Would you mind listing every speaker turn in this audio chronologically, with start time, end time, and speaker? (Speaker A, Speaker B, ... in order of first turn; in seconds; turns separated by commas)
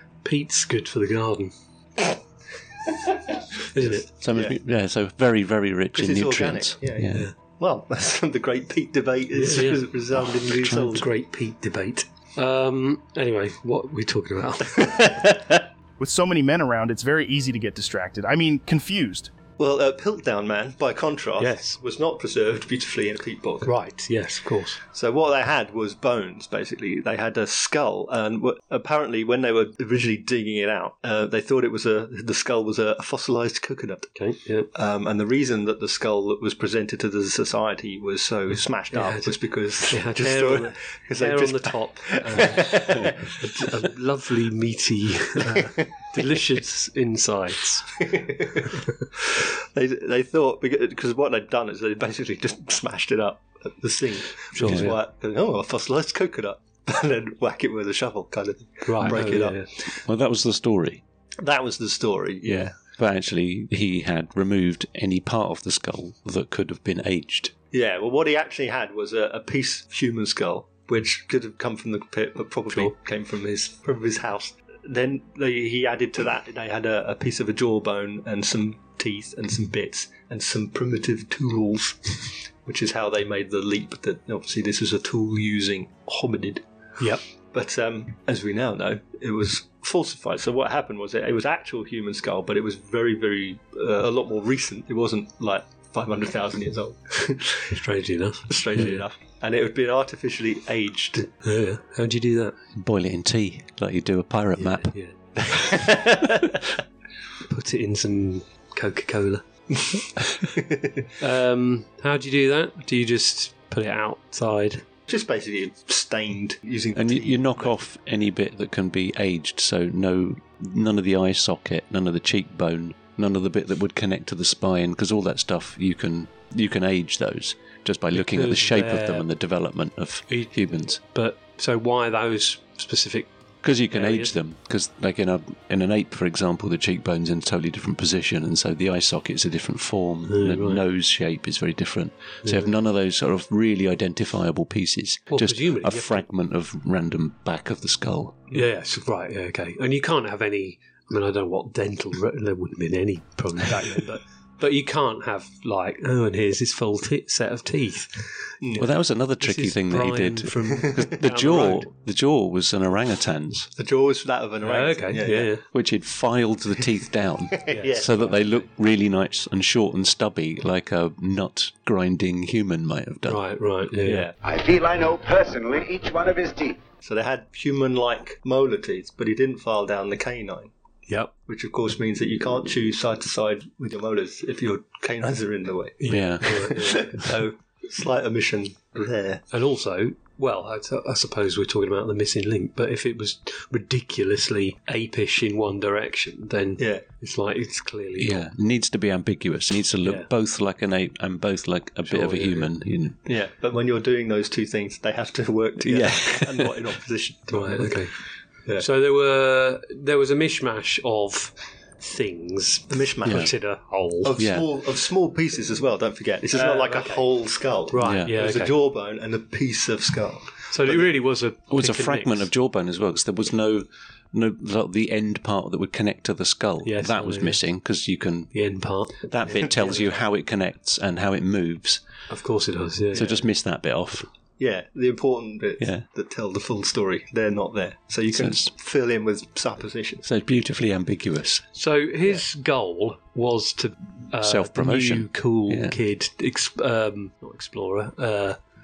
Speaker A: 0.2-1.5, Speaker A: 3.7-4.0, Speaker B: 3.8-4.5, Speaker C: 4.2-7.2, Speaker B: 5.9-11.0, Speaker A: 9.3-15.3, Speaker B: 15.0-15.6, Speaker D: 16.0-19.3, Speaker B: 19.6-23.7, Speaker A: 21.4-21.8, Speaker A: 23.6-24.8, Speaker B: 24.9-34.1, Speaker A: 34.1-34.7, Speaker B: 34.7-43.8, Speaker A: 38.9-47.9, Speaker B: 45.5-45.8, Speaker B: 48.0-59.9, Speaker A: 54.5-55.0, Speaker C: 54.6-54.9, Speaker A: 58.8-59.7, Speaker C: 60.0-61.0, Speaker B: 61.4-62.7, Speaker C: 62.4-67.5, Speaker B: 67.7-86.6, Speaker B: 87.5-97.7, Speaker A: 97.7-99.0, Speaker B: 98.5-101.3, Speaker A: 101.4-102.5, Speaker C: 102.8-104.9, Speaker A: 104.8-105.2, Speaker B: 105.5-106.5, Speaker A: 107.5-109.4, Speaker B: 110.5-111.0, Speaker A: 111.2-114.8, Speaker B: 115.1-117.7, Speaker C: 116.9-131.0, Speaker A: 128.1-129.2, Speaker A: 130.3-133.3, Speaker C: 133.6-148.4, Speaker A: 133.9-134.3, Speaker A: 140.3-140.8, Speaker A: 142.4-142.7, Speaker A: 145.3-146.2, Speaker A: 148.5-158.5, Speaker B: 158.6-158.9, Speaker C: 158.8-163.7, Speaker A: 159.4-161.9, Speaker B: 160.7-161.1, Speaker B: 163.8-165.5, Speaker A: 164.6-165.6, Speaker C: 165.7-173.4, Speaker B: 167.6-168.3, Speaker A: 167.7-168.7, Speaker A: 173.3-174.3, Speaker B: 174.1-174.3, Speaker E: 174.4-176.8, Speaker B: 177.0-180.7, Speaker A: 181.1-181.3, Speaker B: 181.5-189.4, Speaker A: 186.0-187.2, Speaker C: 186.1-186.4, Speaker A: 189.5-198.4, Speaker B: 196.8-197.0, Speaker C: 198.2-203.2, Speaker A: 200.0-200.3, Speaker A: 202.1-202.7, Speaker B: 203.2-208.1, Speaker C: 205.8-206.8, Speaker A: 207.5-208.1, Speaker A: 208.8-214.3, Speaker B: 212.9-213.5, Speaker C: 213.2-213.5, Speaker B: 214.2-221.1, Speaker C: 214.4-214.7, Speaker A: 216.5-217.3, Speaker A: 217.9-218.8, Speaker C: 218.0-218.3, Speaker A: 220.7-222.5, Speaker C: 221.7-228.5, Speaker A: 226.8-227.6, Speaker A: 228.5-230.0, Speaker C: 229.3-232.0, Speaker A: 232.3-233.4, Speaker C: 233.1-234.3, Speaker B: 234.6-240.2, Speaker C: 235.8-236.0, Speaker C: 238.3-238.7, Speaker C: 240.2-241.6, Speaker A: 241.7-248.6, Speaker C: 244.4-245.9